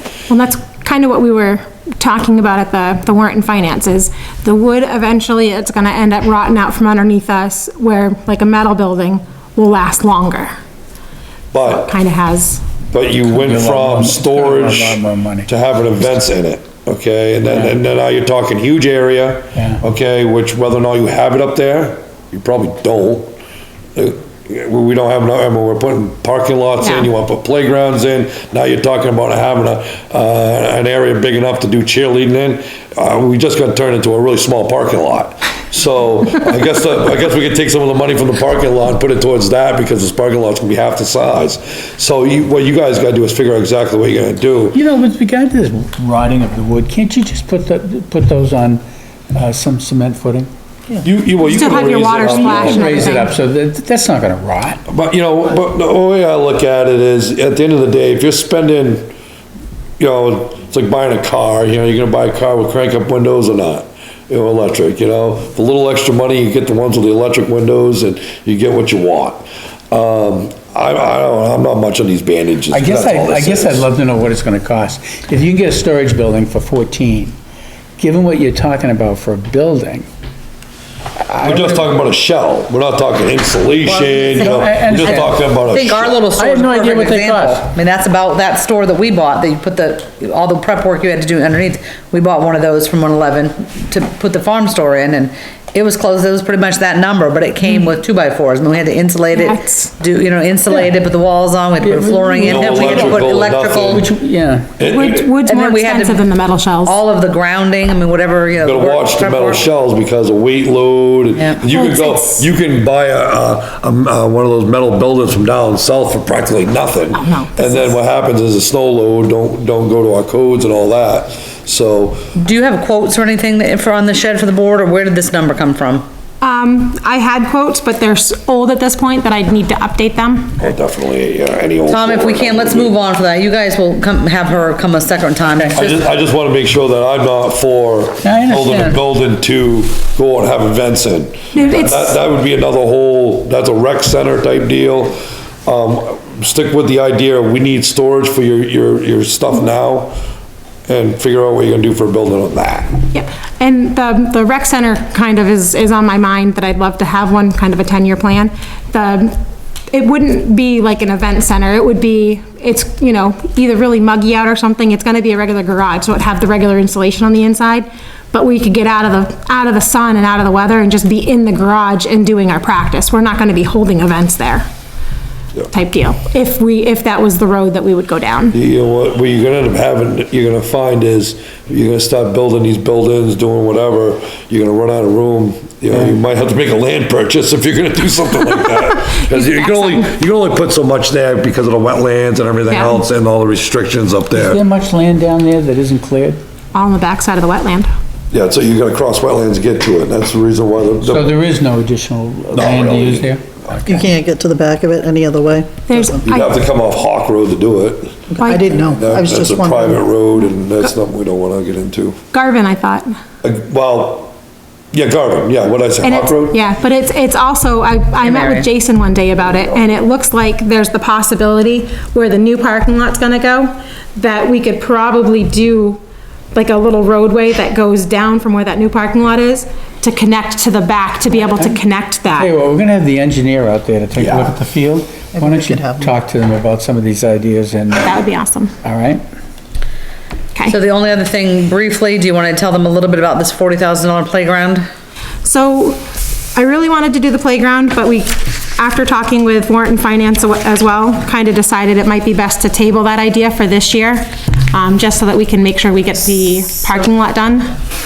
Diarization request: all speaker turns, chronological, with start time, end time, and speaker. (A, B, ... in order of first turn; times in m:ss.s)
0:00.3-0:10.5 A
0:11.5-0:12.0 B
0:11.7-0:12.6 A
0:12.9-0:23.3 B
0:13.2-0:15.5 C
0:17.5-0:17.8 C
0:19.6-0:19.8 C
0:24.0-0:44.8 B
0:26.8-0:27.1 A
0:44.7-0:50.5 C
0:51.0-0:53.1 B
0:51.4-0:53.4 A
0:52.2-0:54.8 C
0:54.9-0:59.1 B
1:00.0-1:13.9 B
1:12.7-1:17.4 C
1:18.0-1:20.1 C
1:21.2-1:21.9 C
1:21.4-1:26.2 B
1:23.8-1:25.5 C
1:25.1-1:44.0 D
1:26.4-1:27.7 C
1:39.3-1:39.9 A
1:41.8-1:43.3 C
1:42.4-1:44.1 B
1:43.9-1:44.8 C
1:44.8-1:45.3 B
1:44.8-1:47.0 A
1:45.4-1:46.3 D
1:46.8-1:49.6 D
1:48.6-2:02.2 B
1:51.4-1:51.6 D
1:51.6-1:52.5 A
1:57.1-1:58.0 A
2:02.4-2:06.0 D
2:06.4-2:10.6 A
2:10.6-2:13.0 B
2:11.9-2:16.0 D
2:15.5-2:15.8 C
2:15.8-2:30.2 B
2:18.2-2:19.0 C
2:21.5-2:22.2 A
2:30.9-2:32.9 B
2:33.1-2:39.4 A
2:39.9-2:54.7 A
2:55.7-2:58.6 A
2:58.5-3:14.6 B
3:09.3-3:10.0 A
3:12.7-3:13.0 A
3:14.3-3:16.4 C
3:16.7-3:17.9 A
3:18.3-3:21.3 B
3:21.0-3:24.0 C
3:22.5-3:23.8 B
3:23.9-3:26.2 E
3:25.9-3:26.6 A
3:26.2-3:32.2 B
3:28.4-3:30.0 E
3:28.4-3:28.8 A
3:32.3-3:33.1 A
3:33.4-3:34.3 B
3:34.9-3:36.6 B
3:36.0-3:46.0 A
3:38.2-3:38.7 D
3:46.5-3:52.5 A
3:51.4-3:58.2 C
3:54.2-3:54.5 B
3:55.3-3:56.1 E
3:58.0-3:58.8 A
3:58.8-3:59.2 C
4:00.6-4:04.9 D
4:05.4-4:06.0 A
4:06.6-4:17.7 A